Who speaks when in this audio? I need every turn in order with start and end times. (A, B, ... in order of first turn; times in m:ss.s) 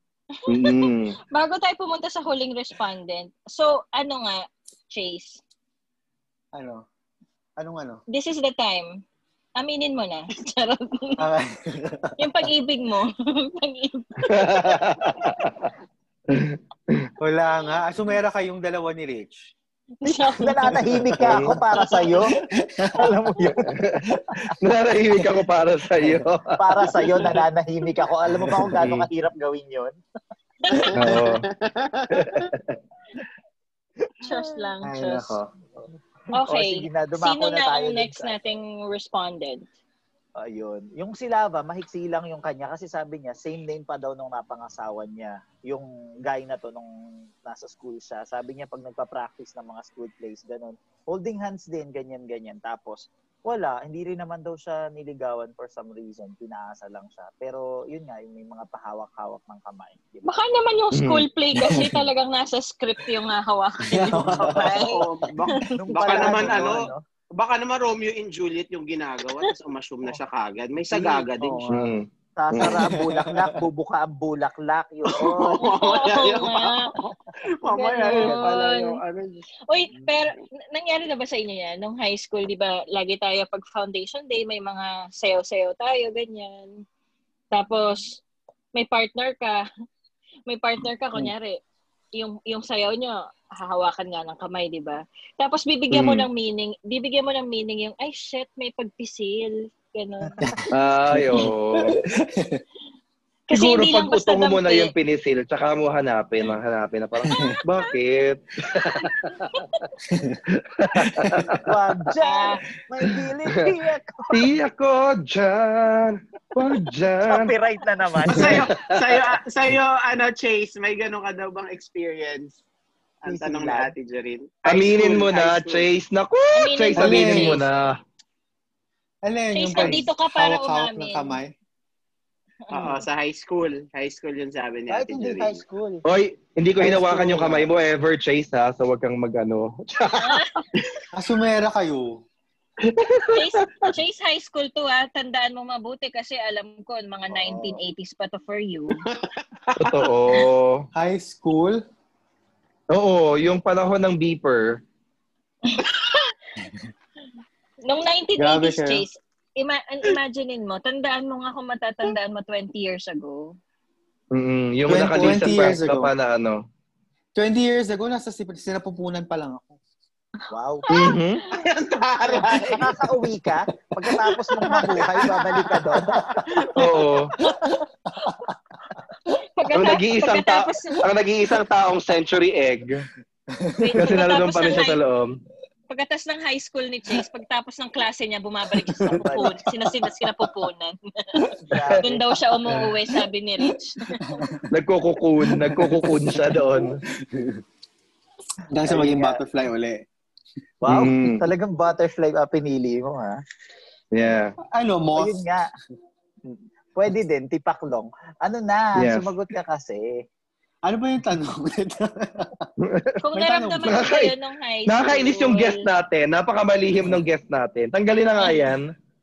0:00.4-0:05.4 A
0:00.5-0:01.2 B
0:06.5-0:06.8 C
0:07.6-0:08.0 C
0:08.1-0:09.0 A
0:09.6-0:11.2 A
0:11.2-0:12.1 C
0:12.2-0:14.9 A
0:14.3-0:15.7 B
0:16.3-0:17.1 B
0:17.2-0:19.5 C
0:20.0-0:20.8 A
0:20.4-0:22.4 D
0:20.8-0:21.4 C
0:21.2-0:21.6 B
0:22.5-0:23.1 C
0:23.0-0:23.7 D
0:23.7-0:24.0 B
0:24.6-0:26.8 B
0:25.2-0:25.4 C
0:26.0-0:26.2 C
0:26.6-0:30.0 D
0:28.3-0:28.8 C
0:28.8-0:29.1 B
0:30.8-0:31.3 C
0:30.9-0:31.5 B
0:31.2-0:32.2 E
0:32.1-0:32.8 B
0:34.2-0:34.7 D
0:34.2-0:35.3 A
0:34.8-0:35.5 C
0:36.3-0:39.7 A
0:36.4-0:38.4 D
0:40.4-0:46.9 D
0:47.4-1:00.3 D
1:00.2-1:05.0 A
1:00.9-1:01.8 B
1:03.9-1:04.7 C
1:04.4-1:11.6 E
1:05.6-1:06.3 A
1:05.8-1:07.0 D
1:06.2-1:06.7 C
1:10.9-1:12.0 C
1:11.7-1:12.9 B
1:12.4-1:15.7 D
1:12.6-1:13.5 C
1:15.2-1:19.4 E
1:15.6-1:16.8 A
1:17.7-1:19.0 A
1:18.1-1:18.8 C
1:19.7-1:26.7 A
1:27.5-1:28.2 A
1:28.7-1:29.6 A
1:30.5-1:31.6 A
1:32.2-1:40.4 A
1:35.9-1:36.3 B
1:40.4-1:42.6 C
1:40.7-1:42.0 B
1:43.5-1:44.9 A
1:43.5-1:49.6 B
1:47.2-1:47.5 C
1:49.0-1:49.8 A
1:50.1-1:50.4 C
1:50.6-1:51.6 B
1:51.1-1:51.4 C
1:51.6-1:54.5 D
1:52.2-1:52.6 A
1:54.3-1:57.5 B
1:57.3-1:58.7 D
1:58.2-1:59.3 B
1:58.3-2:02.6 E
2:03.2-2:05.9 E
2:03.3-2:03.9 D
2:04.6-2:08.0 B
2:06.5-2:07.6 A
2:07.0-2:07.6 C
2:09.2-2:11.5 C
2:09.5-2:11.4 A
2:12.7-2:13.0 A
2:12.7-2:15.6 E
2:14.9-2:16.0 D
2:16.0-2:20.4 B
2:16.8-2:17.7 C
2:20.2-2:20.7 A
2:21.1-2:22.2 C
2:22.8-2:23.9 B
2:23.3-2:29.0 A
2:29.1-2:30.1 E
2:29.8-2:30.9 B
2:30.9-2:31.8 C
2:32.9-2:34.8 B
2:35.7-2:36.3 A
2:36.6-2:36.9 C
2:37.9-2:43.6 A
2:38.4-2:39.0 C
2:44.3-2:46.6 B
2:44.9-2:46.1 C
2:47.4-2:49.8 C
2:50.5-2:50.9 D
2:50.9-2:51.2 A
2:50.9-2:51.4 B
2:51.5-2:52.8 E
2:52.6-2:52.9 C
2:52.8-2:56.3 D
2:54.6-2:57.0 E
2:56.7-2:57.3 B
2:59.6-3:01.0 A
2:59.7-3:03.1 B
3:03.5-3:04.2 C
3:03.8-3:05.0 A
3:04.0-3:05.3 B
3:05.9-3:14.4 A
3:08.9-3:09.6 C
3:09.1-3:09.6 D
3:11.7-3:12.2 D
3:11.7-3:12.0 B
3:14.1-3:14.6 C
3:14.7-3:17.0 B
3:15.4-3:17.6 C
3:18.7-3:20.0 C
3:18.8-3:19.4 D
3:20.8-3:23.4 D
3:20.8-3:21.4 B
3:24.1-3:24.5 B
3:24.7-3:25.4 C
3:25.1-3:25.7 D
3:26.5-3:30.2 D
3:29.0-3:29.3 B
3:30.8-3:32.7 C
3:32.8-3:33.1 B
3:33.2-3:35.8 A
3:33.3-3:34.0 C
3:33.8-3:34.3 B
3:34.9-3:38.9 B
3:38.4-3:38.7 A